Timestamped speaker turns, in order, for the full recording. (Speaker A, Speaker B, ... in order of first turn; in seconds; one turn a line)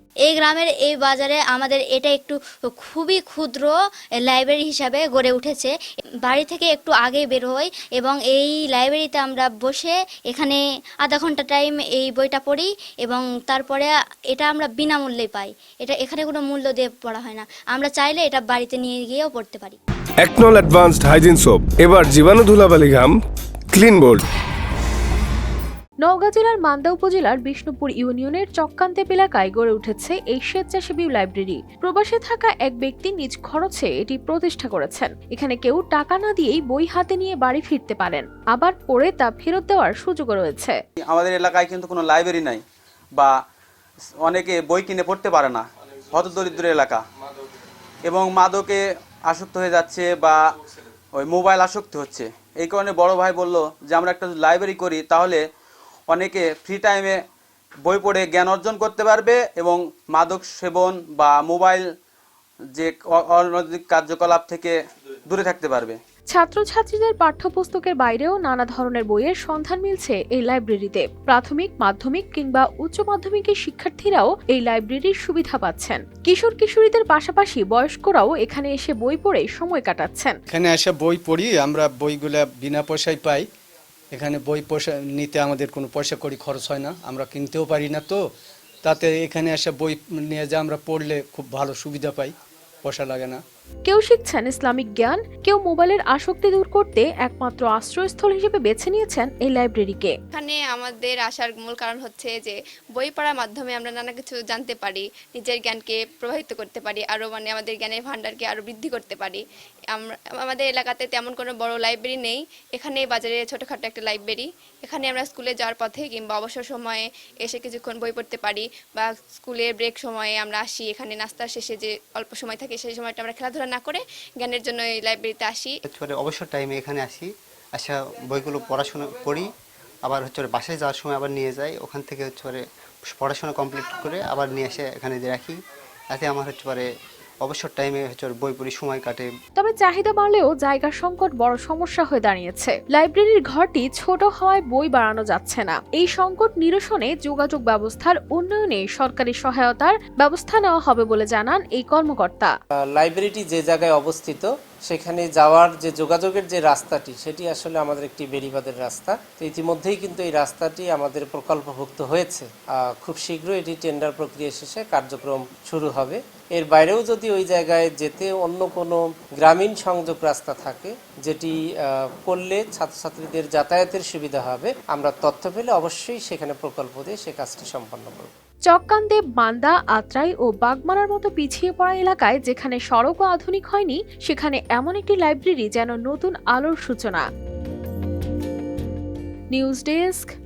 Speaker A: 0.3-3.7
Speaker A: 4.2-5.7
Speaker A: 6.3-19.8
Speaker B: 20.2-23.1
Speaker B: 23.7-24.2
Speaker C: 26.0-40.8
Speaker D: 41.0-42.6
Speaker D: 44.2-47.0
Speaker D: 48.1-50.4
Speaker D: 51.1-55.4
Speaker D: 56.1-57.2
Speaker D: 57.8-61.9
Speaker D: 62.7-66.0
Speaker C: 66.3-80.4
Speaker E: 80.5-83.5
Speaker E: 84.1-88.2
Speaker E: 88.8-93.4
Speaker C: 93.8-100.1
Speaker F: 100.3-125.7
Speaker G: 125.8-129.5
Speaker G: 130.0-135.6
Speaker G: 136.1-136.8
Speaker G: 137.4-139.3
Speaker C: 139.6-152.5
Speaker H: 152.9-178.3
Speaker C: 178.7-187.2
Speaker C: 189.5-190.3